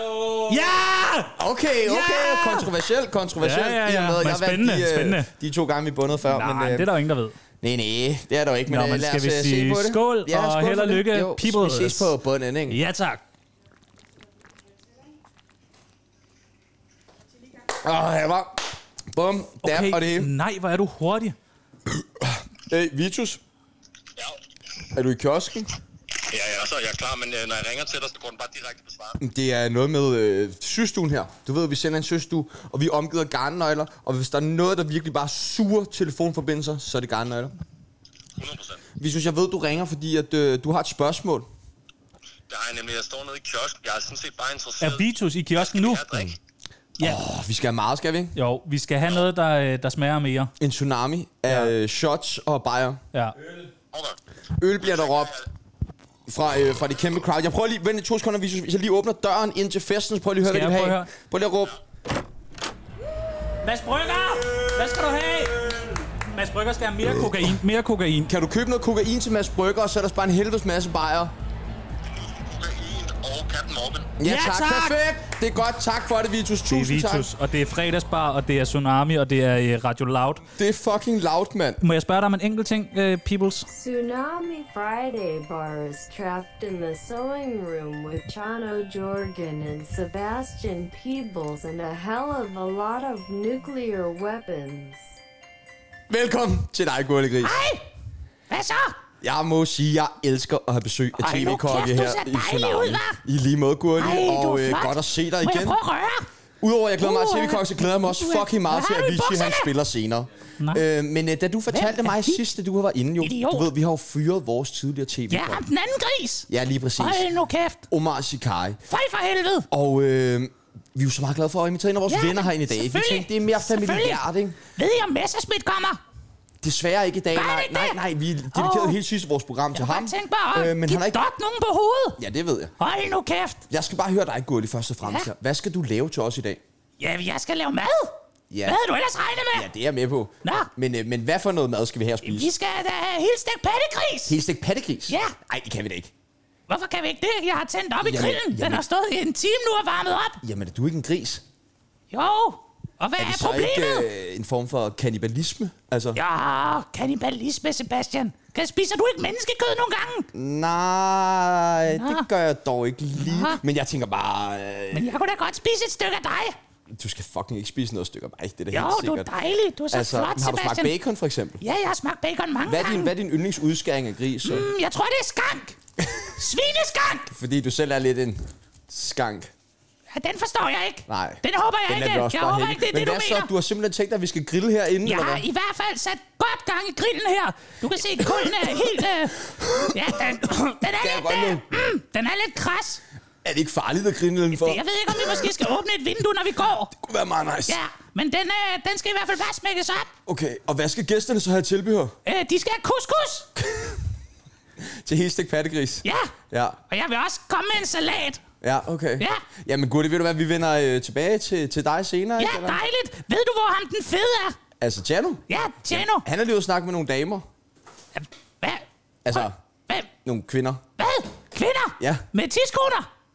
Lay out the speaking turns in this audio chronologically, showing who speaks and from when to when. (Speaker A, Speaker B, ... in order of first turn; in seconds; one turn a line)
Speaker A: 0.5-2.7
Speaker B: 1.4-6.9
Speaker A: 3.4-5.3
Speaker A: 6.3-7.4
Speaker B: 7.6-12.8
Speaker A: 8.7-12.1
Speaker A: 12.7-13.2
Speaker B: 17.8-18.6
Speaker B: 19.1-20.3
Speaker A: 19.6-21.4
Speaker B: 22.0-23.4
Speaker B: 24.9-25.7
Speaker C: 26.3-29.2
Speaker B: 29.2-37.6
Speaker C: 38.4-38.8
Speaker B: 39.0-41.5
Speaker C: 42.5-45.0
Speaker A: 44.8-46.3
Speaker C: 45.6-46.4
Speaker B: 47.0-48.3
Speaker A: 48.4-50.5
Speaker B: 50.6-53.0
Speaker A: 51.5-51.7
Speaker C: 53.9-54.2
Speaker B: 54.6-55.4
Speaker C: 54.8-55.5
Speaker B: 56.3-61.8
Speaker A: 60.4-61.1
Speaker A: 63.6-65.7
Speaker A: 66.2-68.3
Speaker B: 68.3-71.3
Speaker C: 72.1-74.1
Speaker B: 74.2-77.3
Speaker A: 74.2-74.9
Speaker A: 76.7-80.5
Speaker B: 80.6-81.8
Speaker A: 81.8-83.7
Speaker D: 83.7-95.1
Speaker B: 96.1-97.5
Speaker E: 97.4-97.8
Speaker E: 98.5-99.0
Speaker B: 99.2-105.8
Speaker E: 101.2-103.2
Speaker E: 104.0-106.3
Speaker B: 106.6-115.6
Speaker E: 107.0-109.7
Speaker E: 111.7-112.4
Speaker E: 113.2-113.7
Speaker E: 115.3-116.5
Speaker B: 116.5-117.3
Speaker E: 117.0-117.8
Speaker B: 117.9-118.8
Speaker E: 118.9-119.7
Speaker B: 119.7-124.6
Speaker E: 122.1-124.2
Speaker E: 124.8-126.0
Speaker B: 126.6-131.2
Speaker E: 127.3-128.0
Speaker E: 128.5-129.0
Speaker E: 129.7-132.2
Speaker B: 132.2-132.7
Speaker E: 132.8-133.6
Speaker B: 133.7-136.6
Speaker E: 135.0-135.3
Speaker E: 137.0-138.1
Speaker B: 138.5-138.8
Speaker E: 138.7-139.7
Speaker B: 139.5-142.5
Speaker E: 140.4-140.7
Speaker E: 142.2-144.4
Speaker B: 144.3-146.1
Speaker E: 145.1-145.3
Speaker E: 146.7-150.4
Speaker B: 148.0-148.8
Speaker B: 150.4-151.4
Speaker E: 152.1-154.1
Speaker B: 153.2-156.2
Speaker E: 156.2-160.3
Speaker B: 160.3-165.2
Speaker E: 161.9-162.3
Speaker E: 163.2-163.6
Speaker E: 164.9-166.6
Speaker B: 166.9-169.3
Speaker E: 168.7-170.9
Speaker B: 169.9-171.6
Speaker E: 171.6-173.1
Speaker B: 172.7-174.7
Speaker E: 174.4-175.8
Speaker E: 176.3-177.3
Speaker B: 177.3-179.5
Speaker E: 180.1-183.5
Speaker B: 181.1-185.4
Speaker E: 185.0-193.0
Speaker B: 188.4-188.8
Speaker B: 189.6-189.9
Speaker B: 191.0-191.6
Speaker B: 193.4-195.5
Speaker E: 194.5-196.9
Speaker B: 197.0-197.8
Speaker E: 197.7-200.1
Speaker B: 200.3-202.1
Speaker E: 202.3-203.5
Speaker B: 203.6-204.0
Speaker B: 205.0-206.8
Speaker E: 206.0-206.3
Speaker E: 206.9-208.4
Speaker B: 208.6-212.8
Speaker E: 212.4-214.6
Speaker B: 214.8-217.4
Speaker E: 215.5-216.2
Speaker E: 218.2-220.1
Speaker B: 219.2-219.6
Speaker B: 220.2-220.8
Speaker E: 221.0-223.1